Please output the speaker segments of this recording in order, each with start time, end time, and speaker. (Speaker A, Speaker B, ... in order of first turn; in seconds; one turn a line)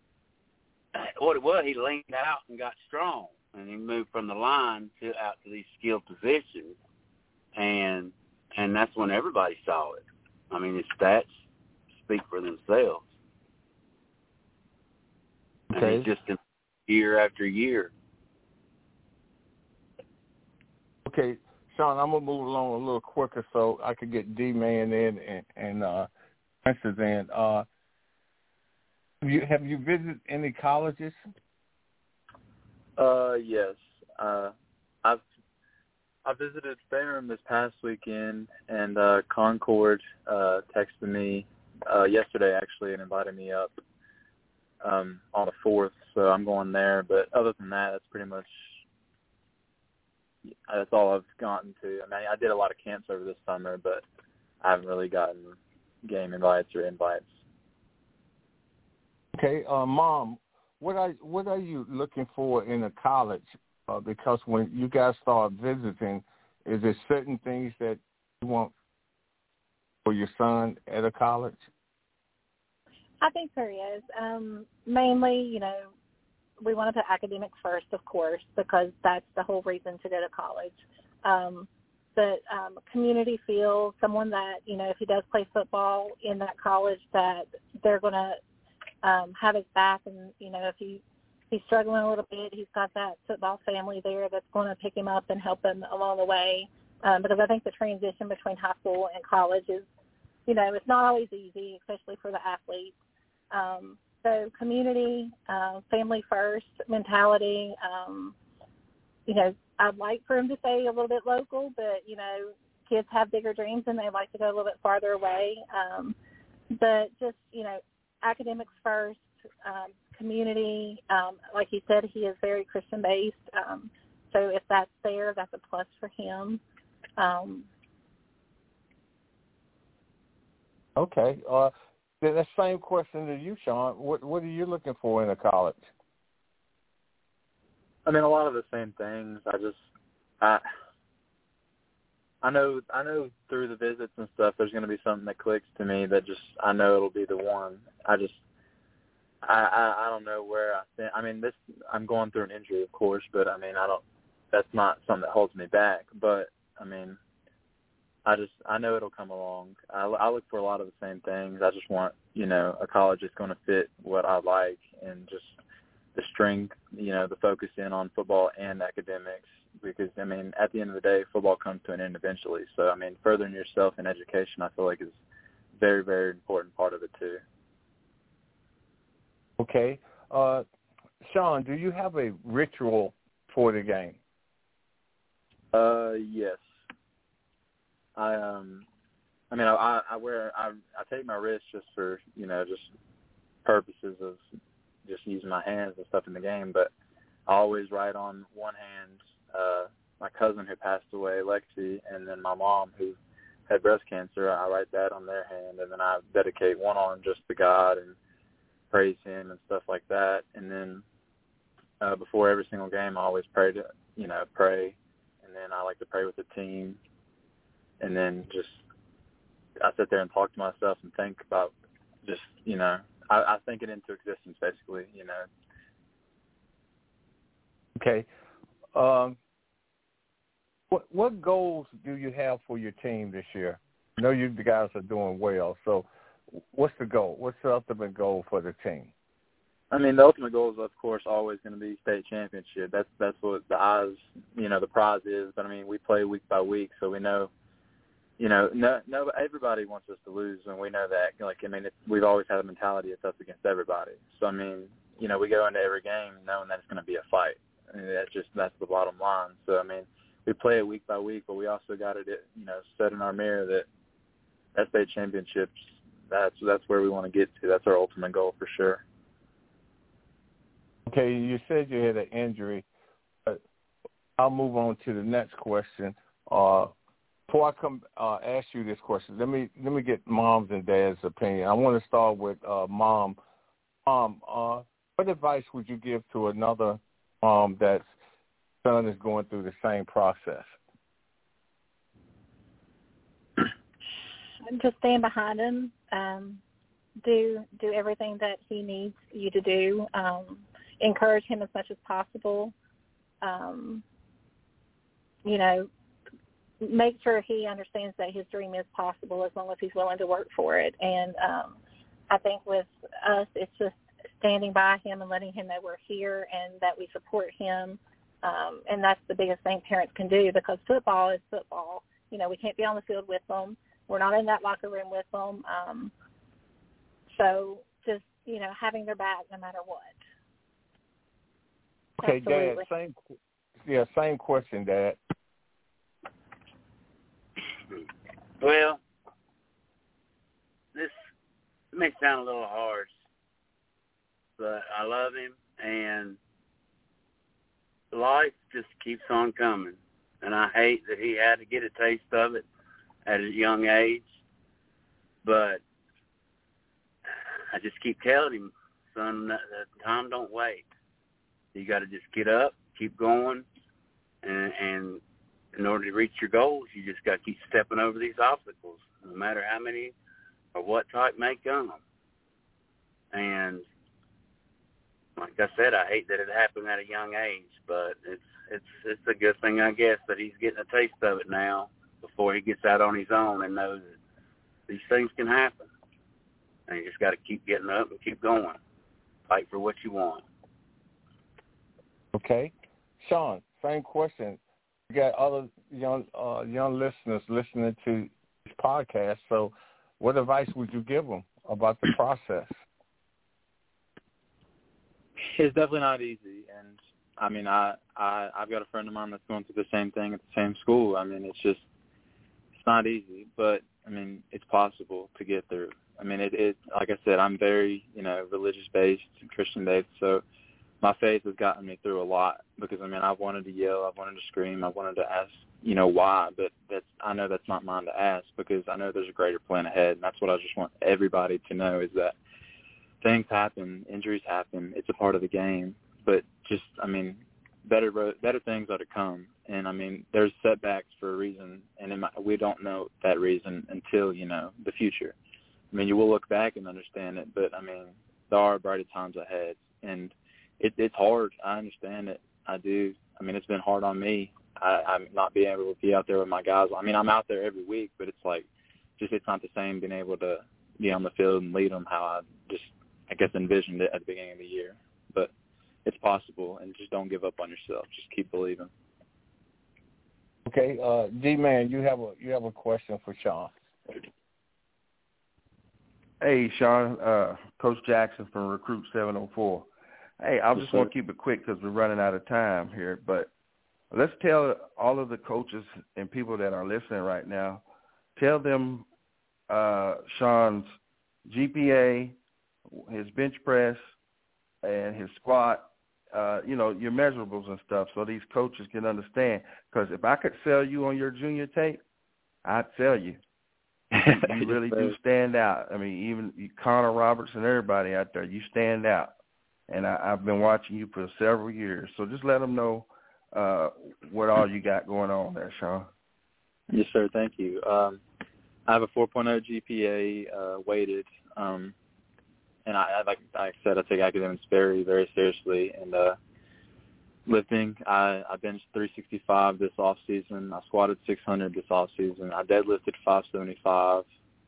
Speaker A: 0.9-6.8
Speaker A: 7.5-11.3
Speaker A: 12.0-13.1
Speaker B: 15.7-16.1
Speaker A: 15.7-17.9
Speaker B: 21.1-26.1
Speaker B: 26.6-27.7
Speaker B: 29.2-31.2
Speaker C: 33.0-34.5
Speaker C: 36.2-43.7
Speaker C: 44.8-48.7
Speaker C: 50.7-54.0
Speaker C: 54.6-57.3
Speaker B: 59.3-68.7
Speaker B: 70.0-71.6
Speaker D: 73.2-75.9
Speaker D: 76.6-88.4
Speaker D: 89.0-99.9
Speaker D: 100.5-102.9
Speaker D: 103.5-108.3
Speaker D: 109.3-116.2
Speaker D: 116.7-126.6
Speaker D: 127.2-127.7
Speaker B: 131.0-135.9
Speaker C: 138.1-139.8
Speaker C: 142.4-148.4
Speaker C: 149.4-157.2
Speaker C: 158.2-165.6
Speaker C: 166.2-175.2
Speaker C: 175.8-177.4
Speaker B: 179.6-180.6
Speaker B: 181.2-184.2
Speaker C: 185.7-186.6
Speaker C: 188.2-188.9
Speaker C: 189.5-192.9
Speaker C: 193.7-194.4
Speaker C: 195.1-196.9
Speaker C: 197.5-208.2
Speaker C: 208.9-211.0
Speaker C: 212.0-217.0
Speaker C: 218.0-218.8
Speaker C: 219.8-221.7
Speaker C: 222.2-225.5
Speaker B: 228.0-228.3
Speaker B: 228.9-229.4
Speaker B: 230.9-239.1
Speaker C: 239.9-247.5
Speaker C: 248.4-263.9
Speaker C: 264.8-269.0
Speaker B: 271.1-272.9
Speaker B: 274.4-276.9
Speaker B: 277.5-283.4
Speaker B: 284.1-288.0
Speaker B: 288.8-290.7
Speaker D: 294.7-296.6
Speaker D: 297.2-302.7
Speaker D: 303.4-304.0
Speaker D: 305.4-305.9
Speaker D: 306.8-311.8
Speaker D: 312.3-326.1
Speaker D: 327.3-330.1
Speaker B: 332.2-333.2
Speaker D: 332.2-332.9
Speaker B: 333.8-335.2
Speaker A: 338.6-339.0
Speaker A: 341.9-343.1
Speaker A: 344.6-346.4
Speaker A: 348.1-352.6
Speaker A: 353.2-354.2
Speaker A: 355.4-355.8
Speaker A: 357.7-360.9
Speaker A: 361.7-363.7
Speaker A: 364.4-365.2
Speaker A: 365.7-370.1
Speaker A: 370.7-372.0
Speaker A: 373.3-373.9
Speaker A: 375.4-384.2
Speaker A: 384.9-385.9
Speaker A: 386.9-388.8
Speaker A: 389.5-390.4
Speaker B: 392.3-402.7
Speaker C: 405.5-411.9
Speaker C: 412.8-420.4
Speaker C: 421.0-432.4
Speaker C: 433.2-445.4
Speaker C: 445.9-458.7
Speaker C: 459.2-465.5
Speaker C: 466.1-468.9
Speaker B: 470.7-473.7
Speaker E: 476.4-479.9
Speaker E: 480.4-483.5
Speaker E: 484.1-487.8
Speaker E: 488.4-489.1
Speaker E: 489.7-490.9
Speaker E: 491.5-492.4
Speaker E: 492.9-494.0
Speaker E: 494.8-502.0
Speaker E: 502.6-503.4
Speaker C: 504.1-505.2
Speaker E: 504.2-509.3
Speaker E: 509.9-516.1
Speaker C: 516.9-518.2
Speaker C: 518.9-521.9
Speaker C: 522.9-526.4
Speaker C: 527.5-534.3